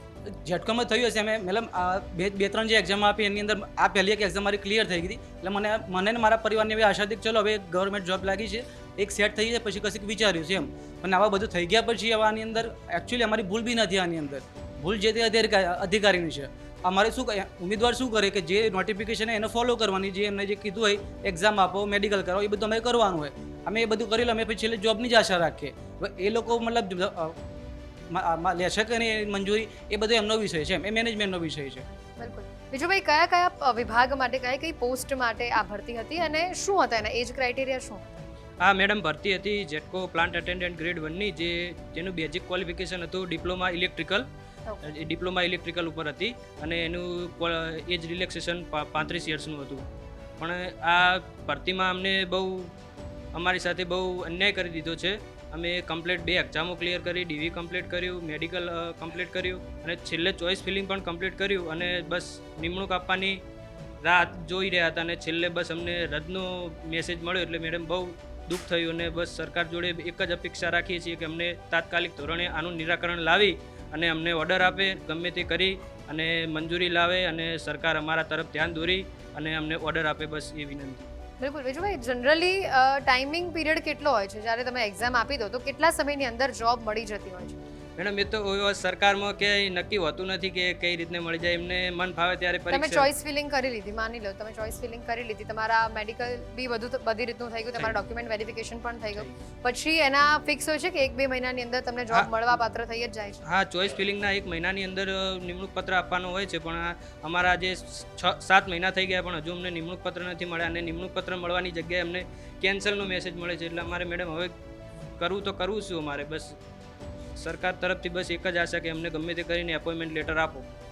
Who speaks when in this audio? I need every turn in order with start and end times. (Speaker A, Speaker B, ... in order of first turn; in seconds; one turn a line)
Speaker A: 0.3-27.4
Speaker A: 28.1-31.8
Speaker B: 32.2-38.2
Speaker C: 38.6-44.3
Speaker C: 44.9-49.8
Speaker C: 50.4-52.7
Speaker C: 53.3-63.4
Speaker C: 64.0-81.1
Speaker B: 81.4-87.6
Speaker C: 88.0-93.1
Speaker B: 92.7-103.4
Speaker C: 103.4-114.5
Speaker C: 115.2-116.5
Speaker C: 117.4-120.7